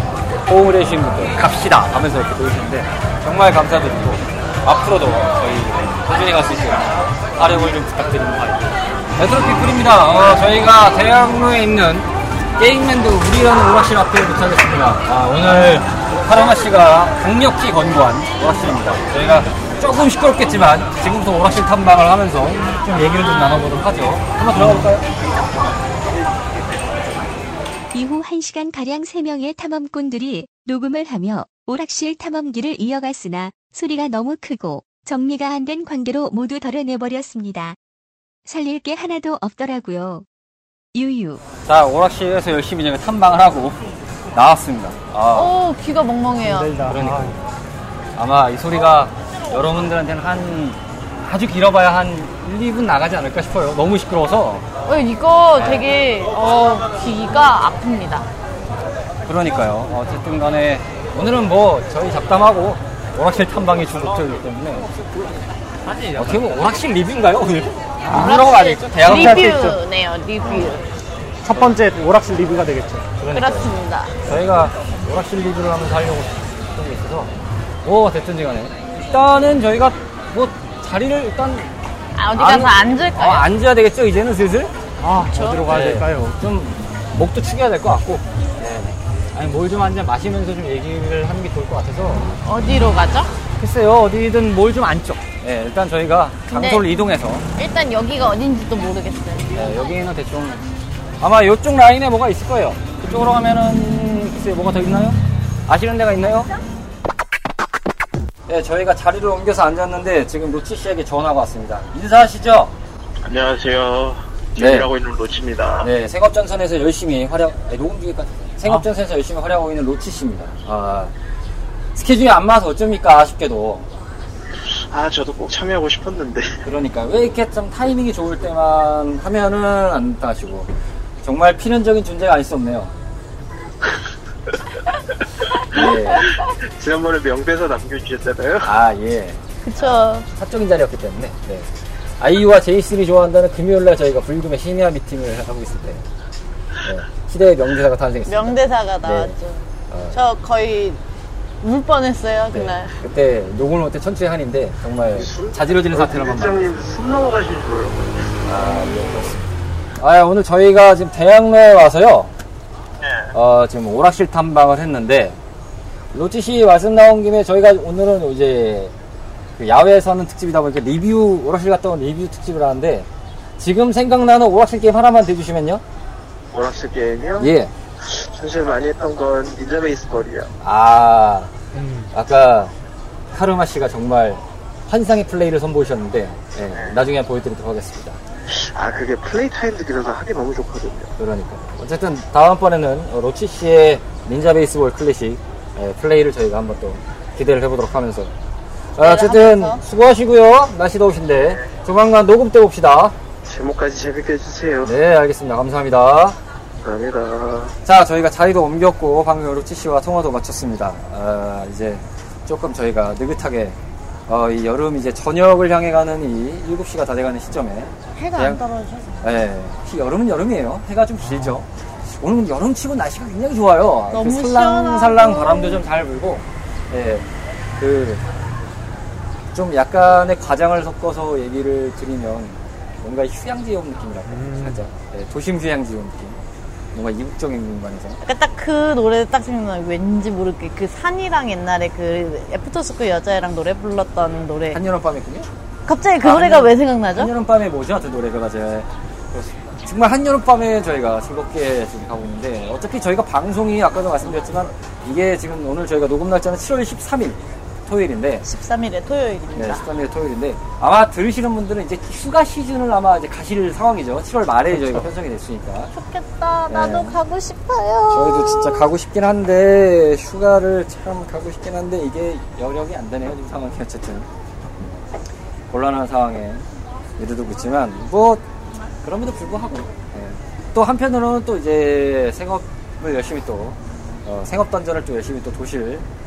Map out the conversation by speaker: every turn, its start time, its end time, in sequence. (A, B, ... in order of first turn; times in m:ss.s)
0:00.4-0:25.0 A
0:24.5-0:24.9 B
0:27.9-0:37.8 C
0:38.4-0:40.2 C
0:40.9-0:41.4 C
0:41.6-0:43.8 A
0:44.3-0:45.5 A
0:45.3-0:46.7 D
0:46.4-0:47.4 B
0:46.9-0:47.4 A
0:48.2-0:54.6 A
0:54.8-0:58.3 D
0:55.6-0:55.9 A
0:59.3-1:05.0 A
1:06.0-1:09.8 A
1:08.1-1:10.8 D
1:09.1-1:09.4 B
1:10.4-1:10.8 A
1:11.4-1:13.1 B
1:13.2-1:13.7 A
1:13.3-1:14.2 D
1:14.2-1:17.3 A
1:17.8-1:21.7 A
1:22.2-1:23.4 D
1:22.3-1:24.7 A
1:25.0-1:26.4 B
1:25.2-1:25.7 D
1:25.3-1:32.4 A
1:32.4-1:33.4 D
1:33.6-1:37.4 A
1:36.5-1:36.8 D
1:37.6-1:39.8 D
1:39.5-1:40.6 A
1:41.2-1:46.5 A
1:48.5-1:52.7 A
1:53.2-1:55.9 E
1:54.6-1:54.9 A
1:55.8-2:01.1 A
2:01.9-2:03.9 A
2:04.5-2:06.5 E
2:06.6-2:12.9 A
2:15.6-2:18.7 E
2:15.7-2:16.3 A
2:18.6-2:26.0 A
2:19.6-2:20.2 D
2:26.8-2:29.3 A
2:28.3-2:31.0 D
2:29.9-2:30.2 A
2:31.6-2:33.0 D
2:32.5-2:36.6 A
2:35.1-2:38.4 E
2:38.4-2:42.3 A
2:43.0-2:43.3 E
2:43.3-2:45.4 A
2:46.1-2:48.9 A
2:49.6-2:53.1 A
2:53.6-2:55.8 A
2:56.5-3:00.5 E
2:57.4-2:57.7 A
3:00.6-3:01.5 A
3:01.7-3:02.1 B
3:02.1-3:02.7 A
3:03.3-3:08.2 A
3:08.5-3:11.1 E
3:11.2-3:18.3 A
3:19.0-3:23.1 A
3:19.0-3:19.8 D
3:23.4-3:24.9 E
3:24.8-3:26.4 A
3:26.8-3:27.7 E
3:27.8-3:38.6 A
3:38.2-3:39.2 D
3:39.2-3:47.3 A
3:41.2-3:41.6 B
3:44.1-3:45.8 D
3:47.8-3:48.2 A
3:49.5-3:56.4 A
3:54.3-3:54.8 B
3:56.9-3:58.2 A
3:58.2-4:04.8 D
4:04.7-4:05.5 A
4:05.8-4:07.3 D
4:06.2-4:18.4 A
4:18.4-4:19.8 D
4:19.5-4:25.9 A
4:24.7-4:25.1 B
4:25.9-4:28.8 D
4:26.7-4:27.2 A
4:28.1-4:34.3 A
4:35.7-4:36.6 A
4:37.2-4:38.4 A
4:39.0-4:46.0 A